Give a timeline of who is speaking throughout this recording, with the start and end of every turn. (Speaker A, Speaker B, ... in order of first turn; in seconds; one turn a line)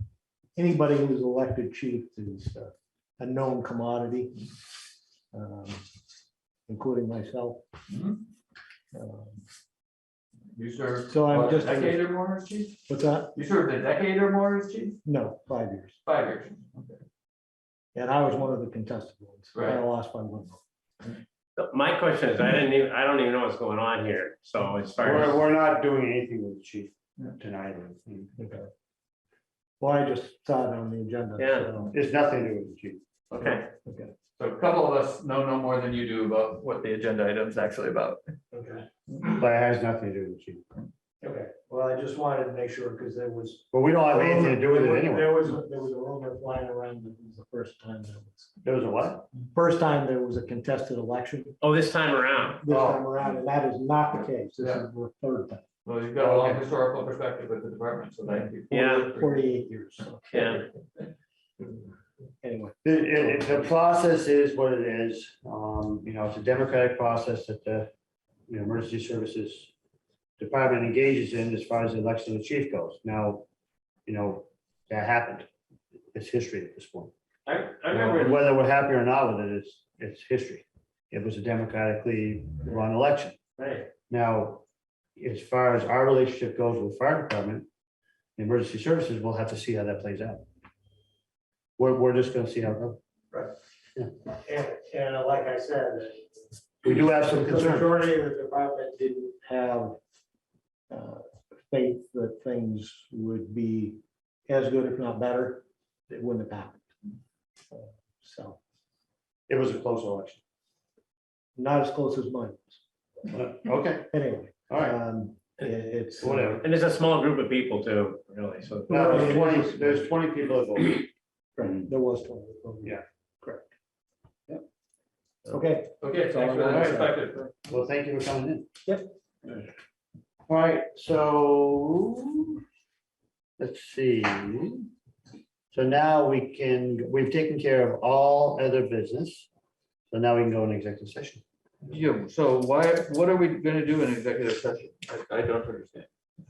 Speaker A: 0.6-4.5
Speaker A: 5.3-5.8
Speaker A: 6.7-7.6
Speaker B: 7.9-8.2
Speaker A: 8.9-9.4
Speaker B: 10.5-12.8
Speaker A: 11.1-12.1
Speaker A: 12.9-13.3
Speaker B: 13.3-15.0
Speaker A: 15.0-16.0
Speaker B: 16.1-17.0
Speaker A: 17.9-20.6
Speaker B: 19.5-19.8
Speaker C: 21.6-25.4
Speaker D: 25.0-28.4
Speaker A: 28.4-28.7
Speaker A: 29.8-31.9
Speaker C: 31.4-31.7
Speaker D: 31.8-33.0
Speaker B: 33.3-33.6
Speaker C: 33.3-33.7
Speaker A: 33.8-34.1
Speaker B: 34.2-38.2
Speaker A: 38.5-38.9
Speaker D: 39.2-40.6
Speaker A: 41.2-48.5
Speaker D: 43.7-45.3
Speaker D: 48.6-49.3
Speaker A: 49.5-51.6
Speaker C: 51.6-52.6
Speaker A: 52.6-55.6
Speaker D: 52.7-53.0
Speaker B: 55.8-60.6
Speaker D: 56.2-56.6
Speaker C: 58.7-59.1
Speaker A: 58.9-60.3
Speaker C: 60.3-60.6
Speaker A: 62.4-63.6
Speaker D: 62.8-67.9
Speaker D: 68.5-69.7
Speaker D: 70.4-73.5
Speaker D: 74.0-75.5
Speaker D: 76.1-77.1
Speaker C: 77.5-78.4
Speaker D: 77.9-83.4
Speaker C: 83.6-83.9
Speaker D: 84.1-84.6
Speaker D: 85.2-87.7
Speaker D: 88.4-90.4
Speaker D: 91.8-93.0
Speaker A: 94.4-96.2
Speaker D: 96.8-97.9
Speaker A: 97.3-100.0
Speaker A: 100.9-106.8
Speaker A: 107.7-108.6
Speaker D: 109.5-110.4
Speaker A: 111.5-112.8
Speaker D: 113.3-114.1
Speaker A: 114.1-116.6
Speaker D: 114.7-115.0
Speaker D: 116.2-116.6
Speaker C: 116.6-119.1
Speaker A: 118.9-120.1
Speaker D: 118.9-121.1
Speaker A: 121.5-123.7
Speaker A: 125.5-127.5
Speaker B: 126.0-127.5
Speaker D: 126.7-127.0
Speaker D: 127.7-128.7
Speaker D: 130.5-132.6
Speaker D: 133.6-134.9
Speaker D: 135.7-139.5
Speaker D: 140.1-141.4
Speaker B: 141.9-146.1